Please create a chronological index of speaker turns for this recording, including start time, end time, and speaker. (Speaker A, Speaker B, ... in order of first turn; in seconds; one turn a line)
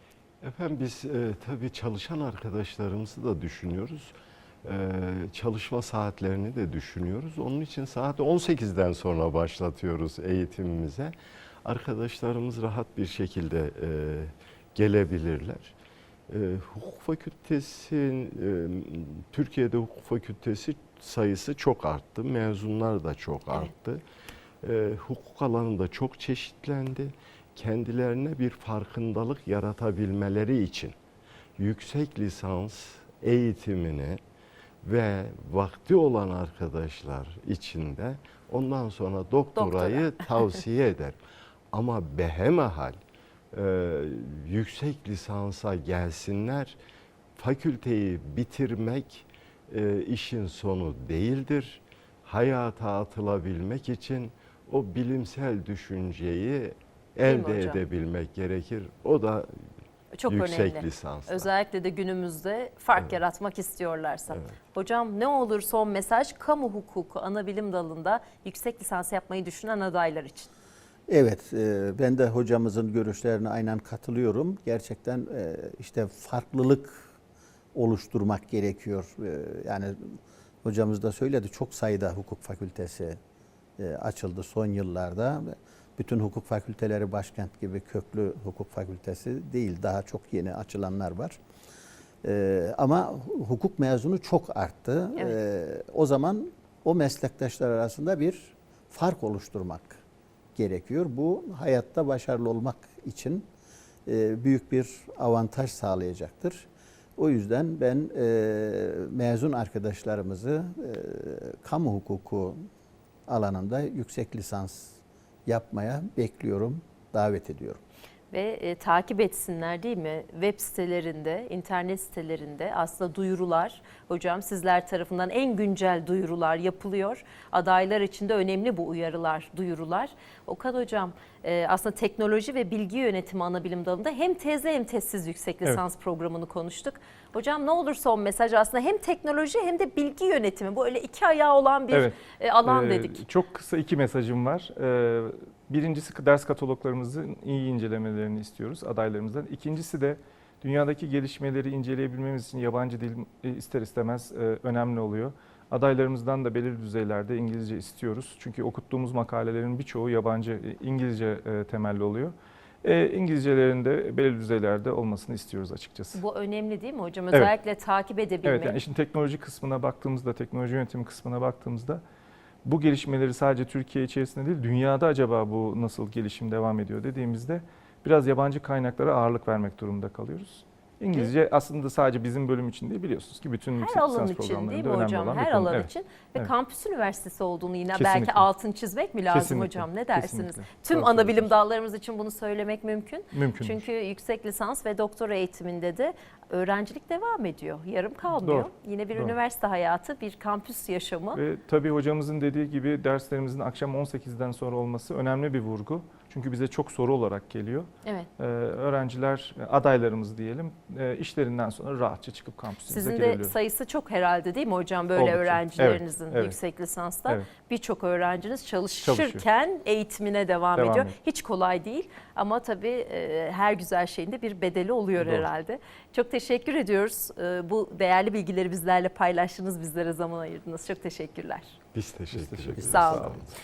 Speaker A: 0.4-15.8
Speaker A: 16.3-24.0
Speaker A: 24.6-30.9
Speaker A: 31.6-34.2
Speaker A: 34.8-41.2
Speaker B: 39.6-40.2
Speaker A: 41.7-43.0
Speaker A: 43.5-46.8
Speaker A: 47.4-59.5
Speaker B: 57.2-57.8
Speaker B: 60.1-70.5
Speaker A: 60.3-61.5
Speaker C: 71.1-77.1
Speaker C: 77.7-83.2
Speaker C: 83.8-91.4
Speaker C: 92.2-100.0
Speaker C: 100.5-103.5
Speaker C: 104.1-112.7
Speaker C: 113.3-117.8
Speaker B: 118.3-143.2
Speaker D: 141.9-166.2
Speaker B: 166.1-168.8
Speaker D: 168.4-172.0
Speaker D: 172.6-186.5
Speaker B: 183.8-201.4
Speaker D: 187.9-188.5
Speaker D: 189.3-191.5
Speaker D: 193.3-193.8
Speaker D: 198.3-199.4
Speaker D: 201.3-213.5
Speaker B: 212.9-231.8
Speaker D: 215.2-216.6
Speaker D: 219.0-219.4
Speaker D: 220.8-221.1
Speaker D: 225.2-225.5
Speaker A: 231.9-233.6
Speaker D: 232.3-233.5
Speaker B: 232.8-233.3